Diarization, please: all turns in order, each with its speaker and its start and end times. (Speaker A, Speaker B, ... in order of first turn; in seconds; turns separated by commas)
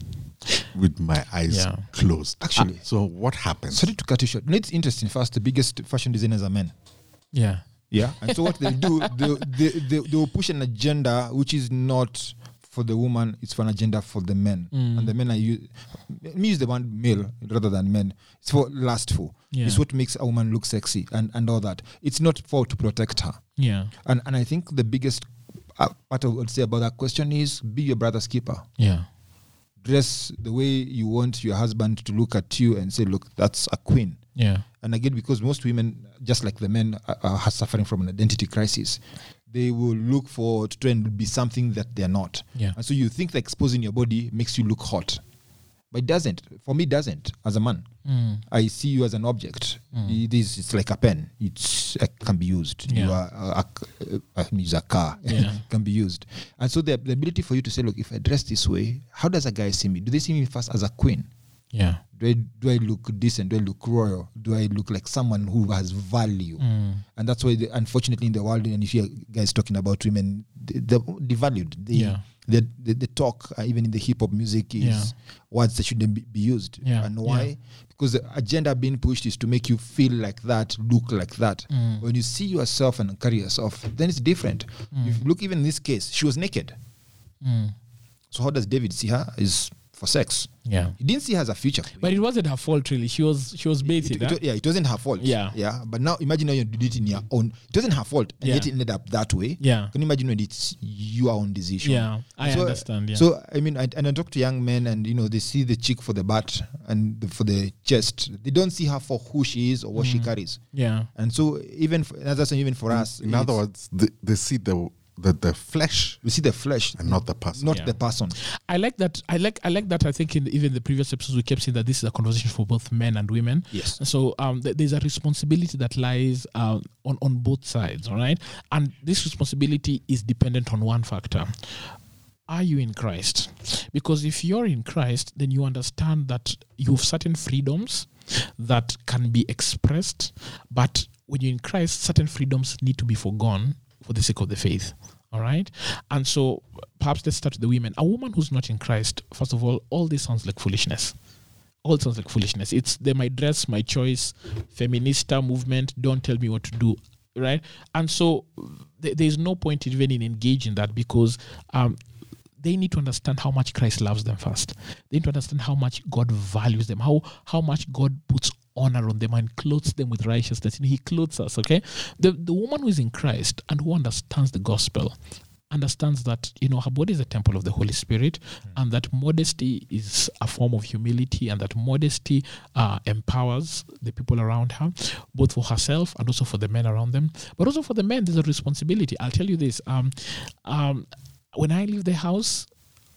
Speaker A: 0.7-3.9, Speaker B: 1.5-1.9, Speaker C: 2.4-2.9, Speaker C: 3.7-6.7, Speaker B: 7.3-9.1, Speaker C: 7.9-23.4, Speaker B: 14.7-15.1, Speaker B: 19.5-19.8, Speaker B: 23.6-23.9, Speaker C: 24.0-28.7, Speaker B: 28.8-29.1, Speaker C: 29.8-34.2, Speaker B: 34.4-34.6, Speaker C: 34.8-45.2, Speaker C: 45.9-47.9, Speaker B: 48.0-48.4, Speaker C: 48.5-61.3, Speaker B: 49.9-50.2, Speaker B: 52.9-53.2, Speaker B: 55.3-55.6, Speaker B: 61.7-62.0, Speaker C: 62.2-66.6, Speaker B: 66.6-67.0, Speaker C: 67.1-86.7, Speaker B: 71.9-72.2, Speaker B: 74.8-75.1, Speaker B: 76.8-77.5, Speaker B: 81.7-82.0, Speaker B: 84.9-85.2, Speaker B: 87.4-87.7, Speaker C: 88.3-92.2, Speaker B: 90.7-91.0, Speaker B: 92.0-94.4, Speaker C: 93.8-110.6, Speaker B: 95.2-95.6, Speaker B: 98.4-98.7, Speaker B: 99.6-99.9, Speaker B: 101.8-103.2, Speaker B: 110.0-111.1, Speaker C: 111.1-113.6, Speaker A: 112.9-116.2, Speaker C: 116.2-118.4, Speaker A: 117.0-117.8, Speaker B: 117.7-131.9, Speaker C: 123.7-124.0, Speaker B: 132.5-151.1, Speaker B: 151.8-162.0, Speaker B: 162.6-175.1, Speaker B: 175.7-192.7